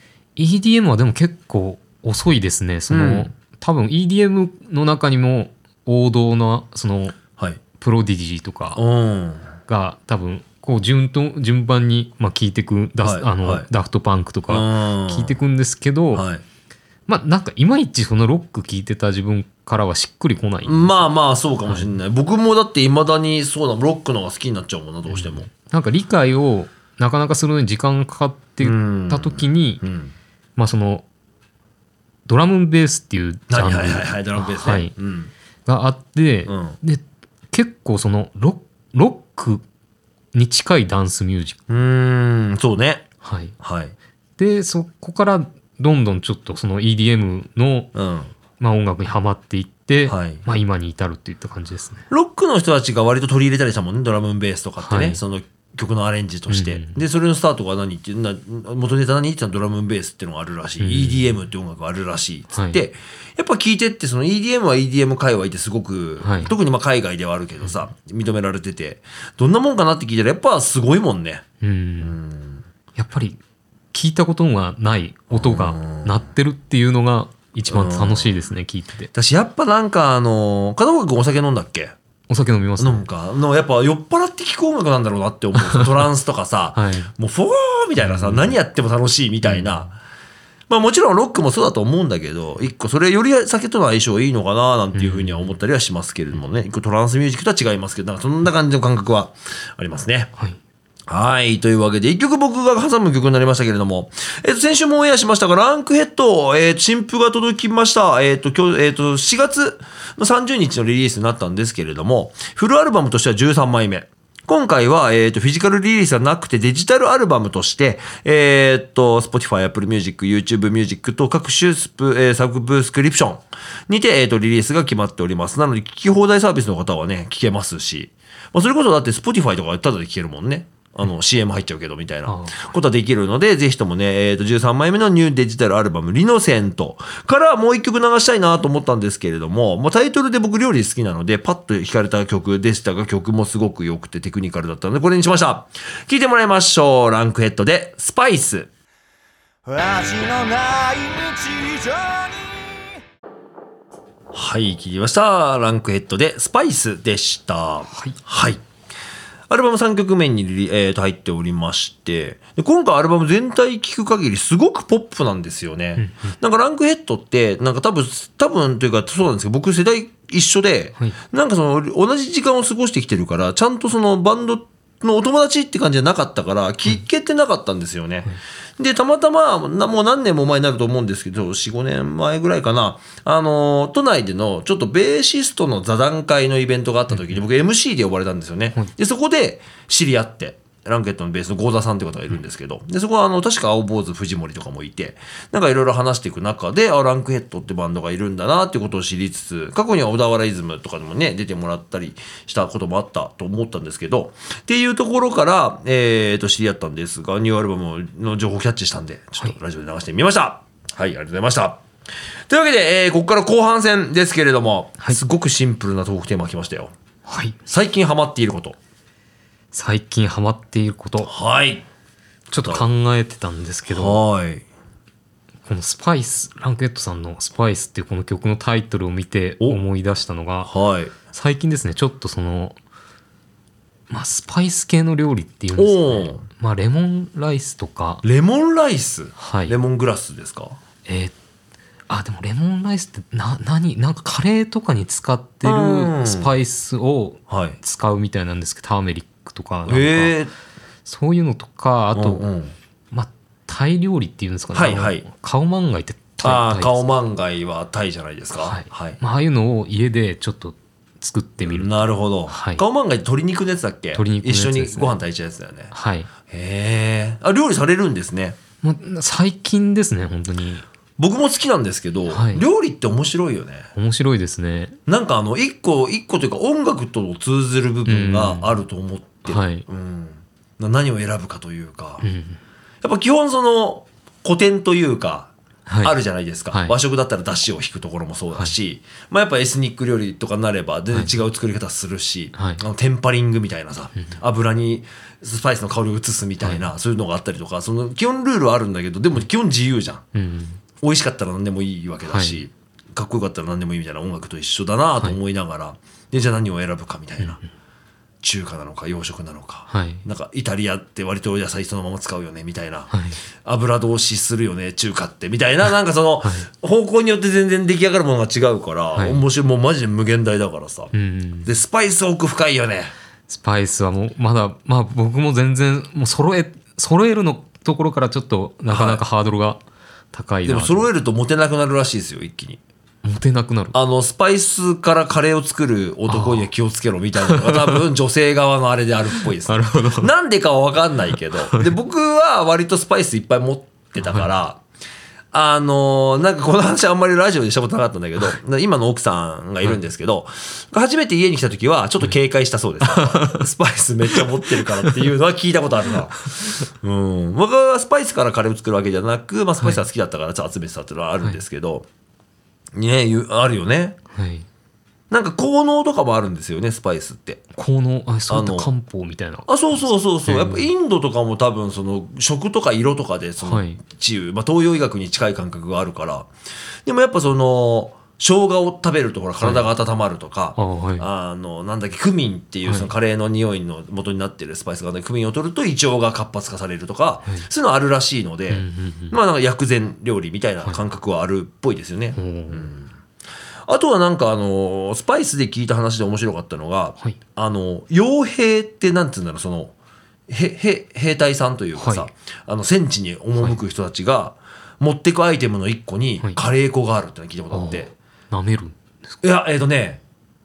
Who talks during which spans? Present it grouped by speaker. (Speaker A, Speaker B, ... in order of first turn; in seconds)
Speaker A: 0.3-7.2, 7.7-8.8, 9.7-16.2, 17.1-21.1, 25.1-29.8, 30.6-31.1, 32.2-34.9, 35.6-39.6, 40.3-41.6, 43.2-43.5, 44.4-47.9, 48.6-52.0, 54.8-55.2, 56.5-57.0, 60.8-61.3, 62.5-62.8, 66.2-66.5, 71.6-72.2, 72.9-73.4, 73.9-79.1, 82.3-83.0, 85.6-86.0, 86.8-87.1, 88.0-88.5, 89.4-89.8, 94.9-95.5, 132.3-132.7, 157.9-158.2, 166.0-166.3, 187.1-187.4, 217.3-217.6, 219.7-221.3, 222.5-224.2, 225.6-230.7, 231.3-232.8, 234.1-238.2, 239.4-239.8, 241.0-241.3, 242.1-250.3, 251.0-252.4, 253.1-257.1, 258.6-261.9, 262.5-262.8, 264.1-265.2, 265.9-266.3, 268.8-270.9, 272.3-272.6, 273.9-275.0, 278.1-278.8, 279.4-279.8, 282.2-282.6, 285.9-286.1, 292.5-292.8, 296.6-296.9, 300.3-300.8, 302.3-302.6, 309.9-310.2, 313.1-313.4, 319.1-319.4, 321.1-321.7, 323.5-329.8, 330.3-331.1, 333.2-333.9, 336.3-336.7, 337.4-338.0, 339.6-340.3, 353.0-353.6, 354.3-355.2, 364.3-364.6, 367.7-370.9, 373.6-374.0, 379.6-379.9, 380.8-381.2, 388.7-389.4, 392.4-392.9, 402.0-402.3, 407.7-409.0
Speaker B: 2.9-3.3, 8.7-9.5, 13.0-13.7, 14.5-15.4, 16.1-16.4, 20.6-25.5, 28.6-30.1, 33.5-35.3, 36.5-36.8, 41.7-43.0, 43.6-43.9, 47.9-48.3, 50.1-50.4, 52.1-71.4, 72.0-72.6, 75.3-76.2, 77.7-78.4, 79.1-81.9, 82.8-90.0, 90.7-100.3, 101.1-148.7, 154.3-158.6, 159.5-211.8, 212.5-216.9, 217.7-218.8, 221.2-221.8, 222.5-222.8, 223.9-224.6, 230.6-231.1, 235.8-236.4, 238.2-240.8, 245.6-246.5, 247.5-247.8, 249.9-250.5, 252.1-252.7, 254.7-255.2, 256.4-259.2, 261.6-265.9, 266.5-268.6, 271.2-273.9, 275.1-282.3, 283.0-300.2, 301.0-307.6, 308.4-313.1, 313.6-321.1, 321.6-323.1, 328.9-329.2, 330.6-332.8, 333.9-344.8, 345.5-362.1, 362.9-364.2, 365.3-367.6, 368.5-368.9, 369.7-376.5, 377.1-393.1, 393.9-399.9, 400.5-408.1, 409.4-410.2
Speaker C: 149.7-152.3